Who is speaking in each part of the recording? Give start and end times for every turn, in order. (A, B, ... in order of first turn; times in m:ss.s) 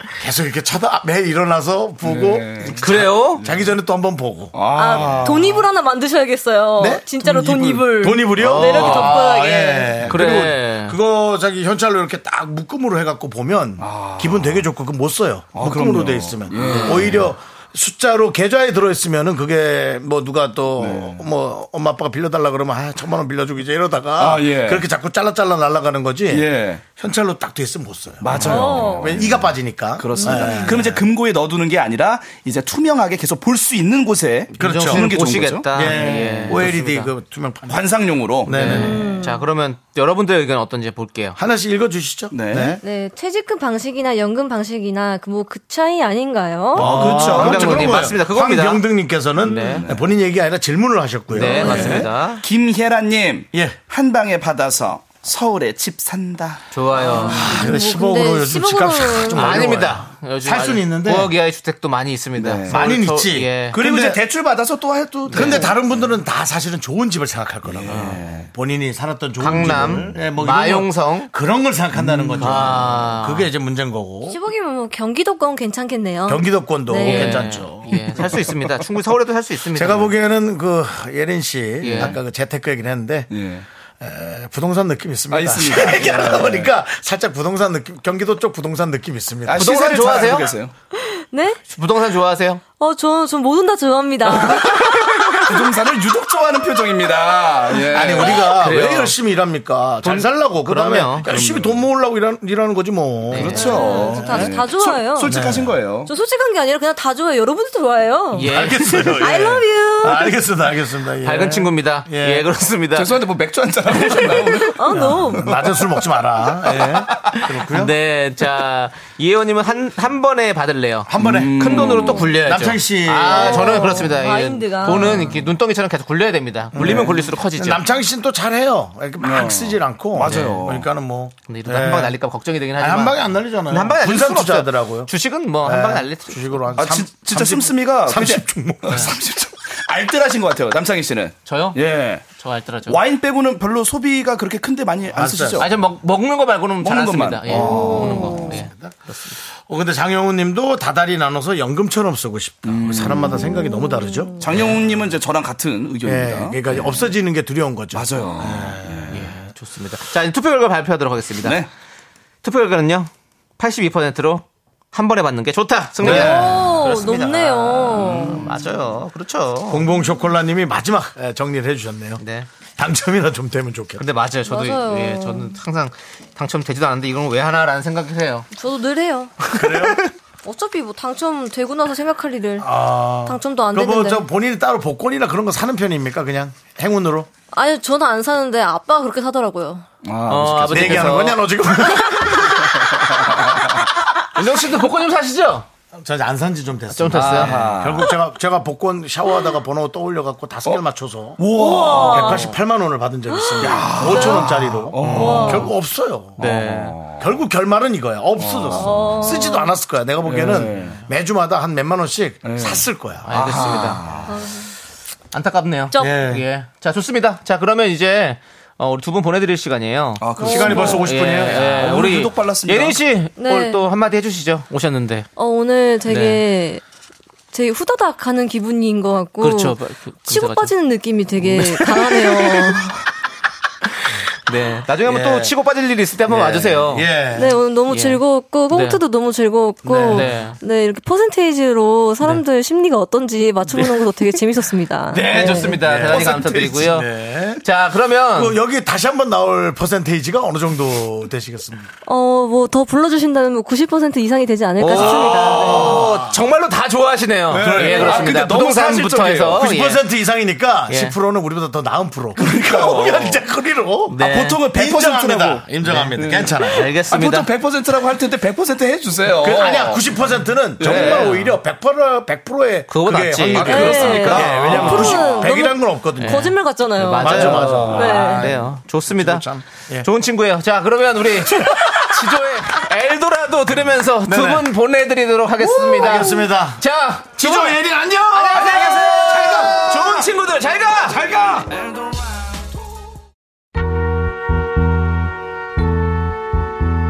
0:00.2-0:05.2 A
0:02.0-0:02.8 B
0:02.7-0:03.4 C
0:04.5-0:05.6 B
0:04.7-0:10.0 D
0:06.8-0:31.0 A
0:08.4-0:09.3 C
0:10.1-0:11.0 C
0:13.8-0:14.6 B
0:15.5-0:17.3 B
0:16.6-0:17.2 C
0:20.8-0:21.2 B
0:24.2-0:24.8 B
0:26.3-0:26.8 B
0:28.2-0:35.8 B
0:28.4-0:29.2 D
0:30.2-0:30.7 D
0:34.5-0:37.1 C
0:34.6-0:35.1 A
0:35.7-0:37.9 A
0:35.9-0:36.5 D
0:37.7-0:38.6 B
0:38.4-0:39.0 A
0:38.5-0:41.4 C
0:38.6-0:39.4 D
0:41.4-0:42.8 A
0:42.3-0:42.8 B
0:42.8-0:47.0 D
0:46.7-0:48.1 B
0:46.7-0:52.1 A
0:46.8-0:48.8 C
0:49.4-0:49.9 C
0:49.5-0:49.9 B
0:51.3-0:52.4 C
0:51.4-0:56.7 B
0:51.6-0:52.0 D
0:53.5-0:53.8 A
0:56.7-0:57.6 C
0:57.0-0:59.8 D
0:57.2-1:01.3 A
0:59.3-1:03.8 C
1:02.4-1:02.9 B
1:02.7-1:04.2 A
1:03.7-1:05.8 B
1:05.3-1:14.4 A
1:05.3-1:05.7 C
1:07.7-1:08.5 B
1:07.9-1:08.2 C
1:09.4-1:11.3 C
1:12.2-1:12.6 B
1:12.3-1:13.5 C
1:14.2-1:17.6 D
1:16.2-1:18.4 A
1:16.9-1:20.1 C
1:19.7-1:23.3 A
1:21.8-1:22.2 C
1:23.3-1:23.6 B
1:24.0-1:30.2 A
1:25.3-1:26.7 B
1:29.4-1:30.7 B
1:29.6-1:30.5 C
1:30.9-1:31.6 D
1:31.7-1:32.6 C
1:32.8-1:35.7 D
1:34.4-1:38.5 B
1:37.9-1:44.4 A
1:38.0-1:39.1 C
1:40.0-1:41.3 C
1:41.2-1:41.8 B
1:43.3-1:43.7 C
1:43.3-1:46.1 B
1:43.5-1:45.3 D
1:45.2-1:45.8 A
1:46.0-1:50.4 D
1:48.3-1:49.3 C
1:48.5-1:52.5 A
1:51.2-1:53.1 C
1:52.9-1:55.8 B
1:54.6-1:55.5 D
1:54.9-1:57.9 A
1:56.6-1:57.4 B
1:57.7-2:07.8 C
2:01.1-2:03.9 A
2:01.2-2:02.3 B
2:03.2-2:05.5 D
2:06.7-2:12.2 A
2:06.8-2:07.3 B
2:09.2-2:10.9 B
2:10.2-2:10.6 C
2:11.5-2:16.6 C
2:12.8-2:15.1 A
2:15.6-2:19.2 A
2:16.7-2:22.2 B
2:21.4-2:23.0 C
2:22.9-2:25.7 B
2:25.1-2:25.7 A
2:25.5-2:29.4 C
2:26.8-2:28.4 B
2:27.6-2:28.5 D
2:28.2-2:29.0 A
2:29.6-2:34.7 A
2:32.6-2:33.4 B
2:33.4-2:34.4 D
2:34.4-2:36.9 B
2:36.0-2:39.4 A
2:37.9-2:39.2 B
2:39.1-2:41.6 C
2:41.4-2:41.7 B
2:42.4-2:49.9 C
2:46.0-2:46.4 B
2:46.0-2:46.7 A
2:46.0-2:48.5 D
2:49.7-2:52.2 A
2:52.2-2:52.5 C
2:52.8-2:54.0 A
2:54.0-2:58.5 C
2:54.4-2:55.6 D
2:58.5-2:59.5 D
2:59.5-3:00.0 A
3:00.4-3:04.2 D
3:02.6-3:07.3 A
3:07.5-3:09.8 D
3:10.0-3:11.4 B
3:10.3-3:11.4 C
3:10.7-3:12.8 A
3:12.9-3:13.3 B
3:14.3-3:15.6 C
3:15.9-3:26.4 A
3:16.9-3:17.5 C
3:17.2-3:18.1 B
3:21.4-3:22.4 B
3:21.5-3:22.5 D
3:23.3-3:24.5 D
3:23.6-3:25.7 B
3:25.0-3:25.7 D
3:26.4-3:27.0 C
3:26.4-3:27.3 B
3:27.2-3:33.3 A
3:28.4-3:29.3 B
3:28.7-3:29.7 D
3:30.2-3:31.0 B
3:32.4-3:34.4 B
3:33.2-3:34.0 C
3:34.3-3:34.7 D
3:35.3-3:45.3 C
3:35.9-3:36.2 D
3:35.9-3:36.4 A
3:40.2-3:43.0 B
3:40.4-3:41.1 D
3:40.4-3:41.8 A
3:43.4-3:43.8 D
3:45.4-3:46.8 D
3:46.1-3:46.4 C
3:47.5-3:52.9 D
3:49.4-3:50.7 C
3:51.4-3:52.8 C
3:54.4-3:57.1 C
3:55.0-3:55.5 A
3:56.3-3:57.6 A
3:57.3-4:05.8 D
3:57.9-3:59.0 C
3:59.8-4:00.3 A
4:00.1-4:00.6 C
4:03.7-4:04.4 C
4:05.1-4:08.6 C
4:05.2-4:06.9 B
4:05.5-4:07.6 A
4:08.3-4:11.9 A
4:12.0-4:15.9 D
4:14.8-4:20.0 C
4:14.9-4:16.4 A
4:17.5-4:19.6 B
4:17.6-4:18.5 A
4:19.5-4:26.9 A
4:20.9-4:21.1 C
4:22.4-4:23.4 B
4:24.1-4:24.6 C
4:24.2-4:30.2 B
4:25.8-4:27.5 C
4:29.4-4:36.5 A
4:30.8-4:31.4 B
4:30.8-4:31.5 C
4:32.9-4:39.4 C
4:33.5-4:35.4 B
4:33.6-4:38.5 D
4:37.2-4:40.1 A
4:40.0-4:47.8 C
4:41.4-4:42.4 A
4:44.2-4:44.7 A
4:45.6-4:46.5 D
4:45.9-4:46.8 A
4:47.3-4:50.3 A
4:48.3-4:51.2 C
4:48.5-4:49.7 B
4:50.9-4:52.2 B